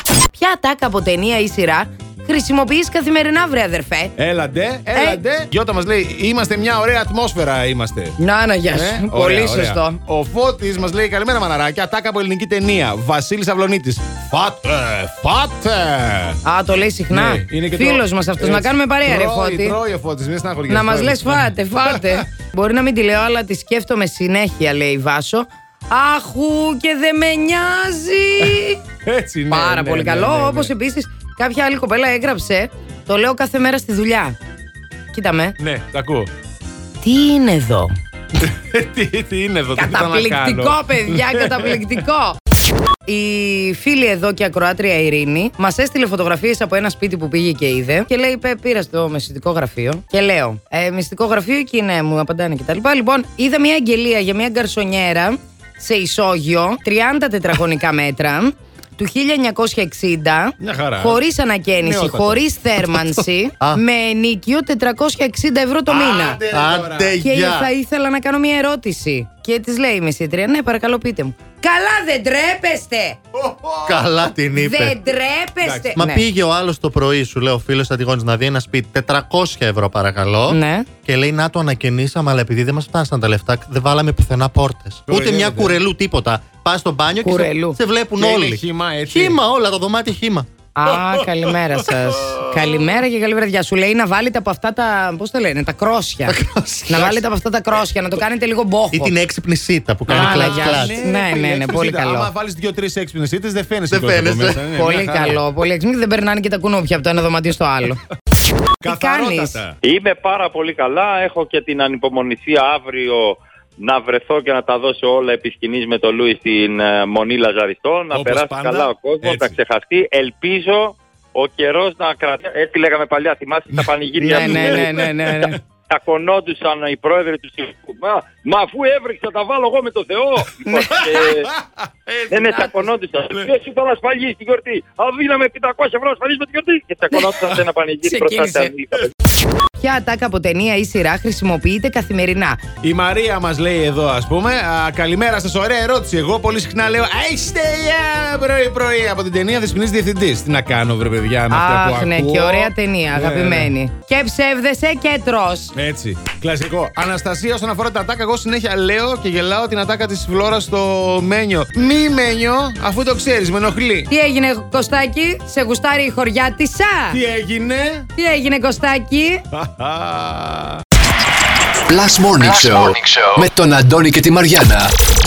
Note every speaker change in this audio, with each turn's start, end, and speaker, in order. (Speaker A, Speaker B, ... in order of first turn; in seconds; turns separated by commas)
Speaker A: 0.3-4.1, Speaker B: 4.2-8.2, Speaker A: 4.9-5.2, Speaker A: 8.2-10.0, Speaker B: 8.7-16.4, Speaker A: 16.4-19.8, Speaker B: 17.1-22.2, Speaker A: 20.7-28.8, Speaker B: 28.4-30.7, Speaker A: 29.5-34.4, Speaker A: 35.1-35.6, Speaker B: 35.6-36.3, Speaker A: 37.0-37.9, Speaker B: 38.4-41.8, Speaker A: 39.7-42.4, Speaker A: 43.0-66.4, Speaker B: 60.6-61.2, Speaker B: 61.8-62.4, Speaker C: 62.9-63.8, Speaker B: 65.9-67.2, Speaker C: 66.5-67.7, Speaker A: 67.2-73.2, Speaker B: 73.3-74.1, Speaker C: 73.8-75.0, Speaker A: 74.5-76.2, Speaker B: 75.6-75.9, Speaker C: 75.9-90.5, Speaker A: 80.5-80.9, Speaker B: 85.1-85.8, Speaker A: 87.2-87.8, Speaker B: 88.2-89.4, Speaker A: 90.7-96.4, Speaker B: 92.3-92.7, Speaker C: 96.2-97.2, Speaker A: 96.9-99.1, Speaker C: 98.9-101.0, Speaker A: 100.1-102.3, Speaker B: 100.1-105.4, Speaker C: 103.9-104.6, Speaker A: 104.7-108.0, Speaker B: 108.8-109.8, Speaker A: 108.8-109.6, Speaker D: 109.8-125.0, Speaker B: 118.1-119.6, Speaker B: 123.7-125.5, Speaker A: 124.2-125.6, Speaker D: 125.9-131.5, Speaker B: 130.7-132.7, Speaker D: 132.3-139.1, Speaker B: 137.1-137.6, Speaker A: 138.0-138.7, Speaker A: 139.8-142.6, Speaker B: 142.8-153.7, Speaker A: 151.5-155.7, Speaker B: 155.7-164.1, Speaker A: 164.1-167.2, Speaker B: 167.1-168.1, Speaker A: 168.2-169.4, Speaker B: 169.5-170.8, Speaker E: 171.9-174.9